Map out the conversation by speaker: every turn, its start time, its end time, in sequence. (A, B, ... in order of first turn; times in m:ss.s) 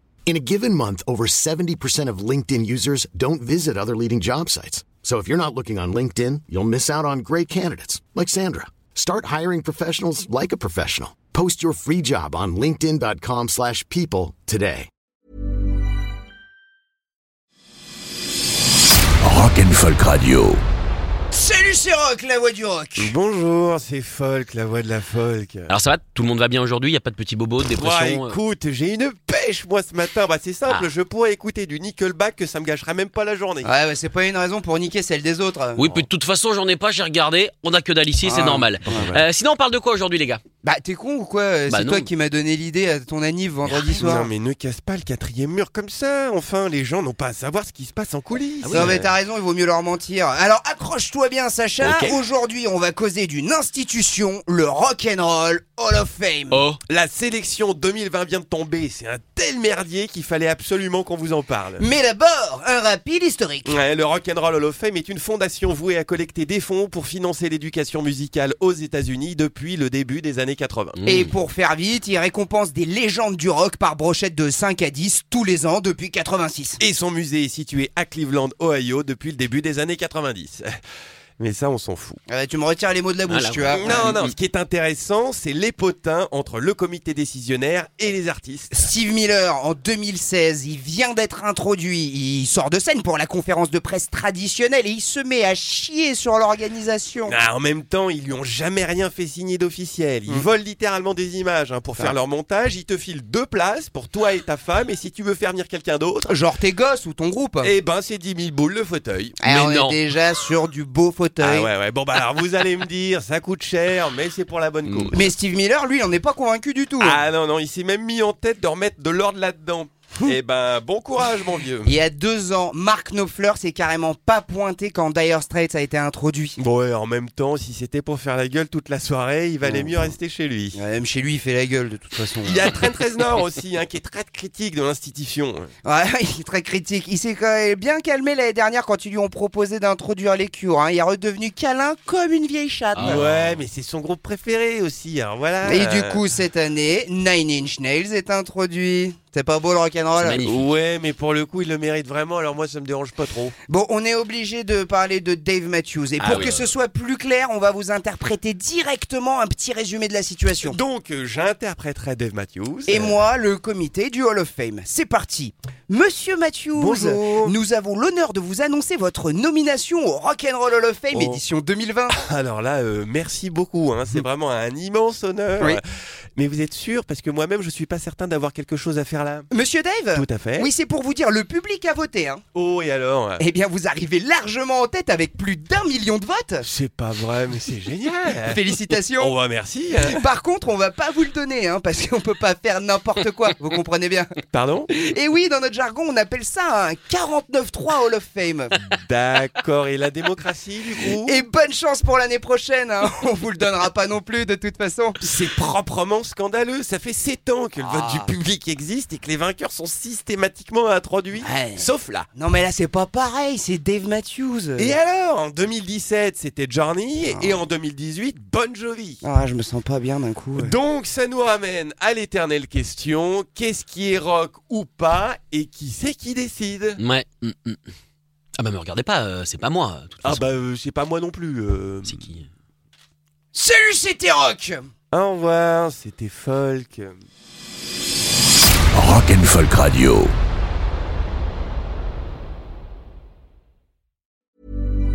0:00.2-0:14.9 A
0:19.2-0:20.6 B
0:21.3-0:23.1 C
0:23.0-0:25.7 D
0:25.7-0:28.4 E
0:27.8-0:33.7 D
0:33.6-0:35.8 C
0:35.8-0:40.4 E
0:38.2-0:39.1 C
0:38.9-0:39.2 D
0:40.6-0:44.3 C
0:41.7-0:42.1 E
0:43.6-0:49.0 D
0:48.6-0:49.1 E
0:48.7-0:56.6 C
0:51.8-0:52.2 E
0:56.5-0:56.8 E
0:56.8-1:01.9 D
1:01.8-1:03.8 C
1:03.6-1:11.0 D
1:11.0-1:11.3 E
1:11.0-1:16.8 C
1:16.8-1:20.7 D
1:21.4-1:22.2 D
1:22.3-1:24.2 C
1:23.3-1:24.3 E
1:23.7-1:28.8 D
1:28.7-1:37.4 C
1:37.3-1:46.4 D
1:46.3-1:47.7 C
1:47.6-1:49.4 D
1:49.4-1:51.7 C
1:49.5-1:50.0 E
1:51.4-1:55.2 D
1:54.8-1:55.1 E
1:55.1-1:57.2 C
1:57.0-2:01.9 D
2:01.8-2:06.6 C
2:06.6-2:10.8 D
2:09.6-2:10.2 C
2:10.7-2:12.8 C
2:12.4-2:15.7 D
2:15.8-2:23.2 C
2:23.0-2:23.6 E
2:23.0-2:26.2 D
2:25.6-2:30.4 C
2:30.2-2:30.7 E
2:30.4-2:33.5 D
2:33.7-2:40.8 C
2:36.2-2:36.7 E
2:40.6-2:43.2 D
2:42.9-2:52.1 C
2:46.8-2:47.5 D
2:51.1-2:51.4 D
2:52.1-2:55.8 D
2:56.3-2:59.5 D
2:59.5-3:02.4 C
3:00.1-3:00.7 D
3:02.5-3:03.4 D
3:03.4-3:06.6 C
3:06.6-3:10.2 D
3:08.4-3:09.3 C
3:10.1-3:14.4 C
3:14.5-3:14.9 D
3:14.9-3:18.8 C
3:18.8-3:21.4 D
3:21.2-3:25.2 C
3:25.2-3:32.3 D
3:27.8-3:28.3 C
3:31.4-3:35.0 C
3:34.8-3:39.2 D
3:37.2-3:37.6 C
3:39.2-3:40.8 C
3:40.5-3:47.0 D
3:47.0-3:47.8 E
3:48.6-3:50.5 E
3:50.2-3:52.3 D
3:52.0-3:52.5 E
3:53.5-3:54.9 C
3:55.1-3:57.2 D
3:58.9-4:00.3 B